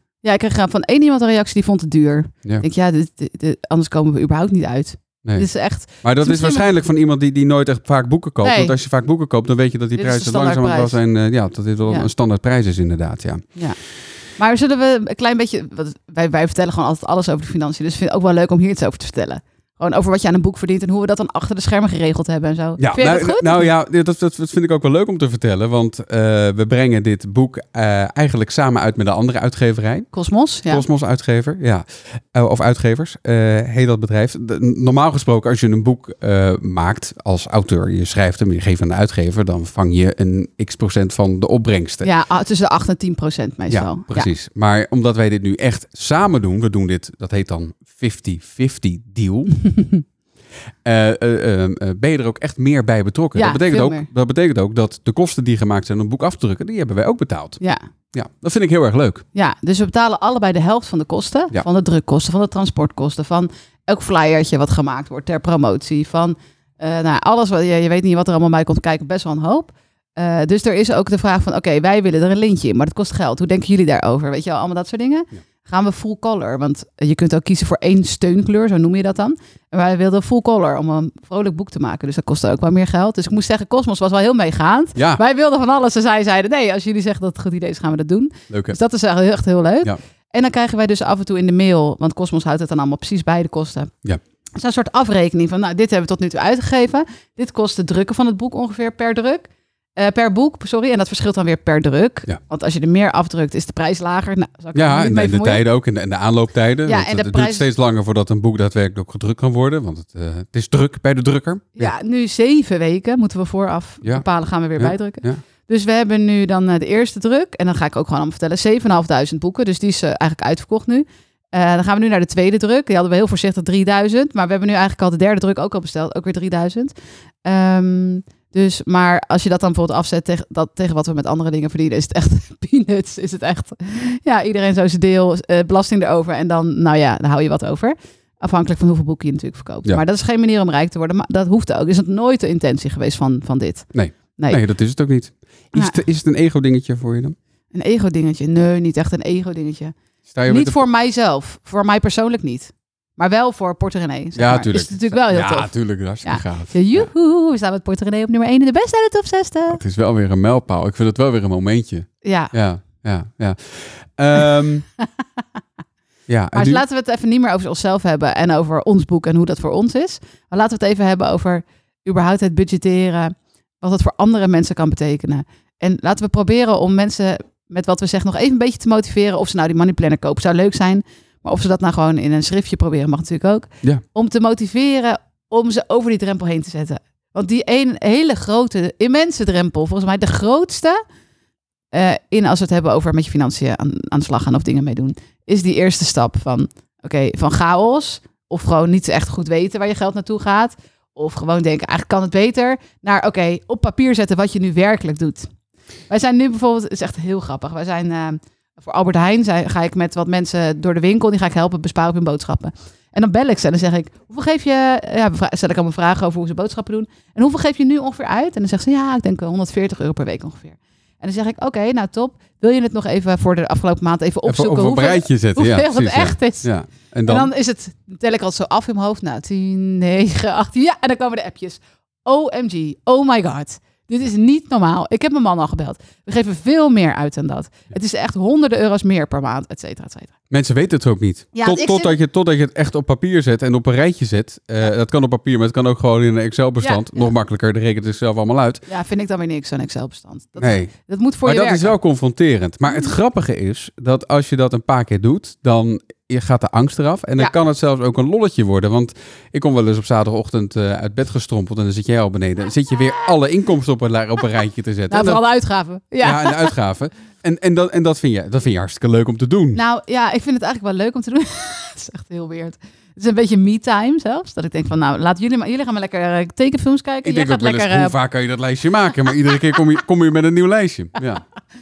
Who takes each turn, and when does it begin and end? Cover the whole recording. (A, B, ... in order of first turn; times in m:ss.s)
0:00.2-0:06.7 A
0:06.0-0:13.4 B
0:08.4-0:08.8 A
0:10.0-0:11.0 A
0:14.4-0:23.7 A
0:22.8-0:30.1 B
0:30.1-0:30.8 A
0:30.7-0:42.1 B
0:42.0-0:44.3 A
0:43.7-0:49.8 B
0:50.8-0:57.6 B
0:53.4-0:54.1 A
0:58.1-0:59.2 B
0:59.3-1:33.9 A
1:25.0-1:25.2 B
1:28.5-1:28.8 B
1:34.6-1:45.6 A
1:44.8-1:51.9 B
1:46.9-1:47.7 A
1:51.8-2:24.6 A
1:54.8-1:55.4 B
2:23.9-2:27.4 B
2:27.7-2:30.0 A
2:30.3-2:30.8 B
2:30.5-2:39.8 A
2:34.4-2:37.1 B
2:39.7-2:44.9 B
2:42.2-2:42.5 A
2:46.3-2:46.8 B
2:46.5-3:11.0 A
3:11.9-3:25.5 A
3:26.1-3:46.7 A
3:44.5-3:47.5 B
3:47.3-4:00.3 A
4:00.5-4:08.8 B
4:01.5-4:02.2 A
4:06.8-4:07.3 A
4:08.9-4:12.0 A
4:10.6-4:10.9 B
4:11.4-4:25.4 B
4:22.9-4:23.4 A
4:25.1-4:26.8 A
4:26.2-4:29.8 B
4:29.7-4:38.2 A
4:37.2-4:41.4 B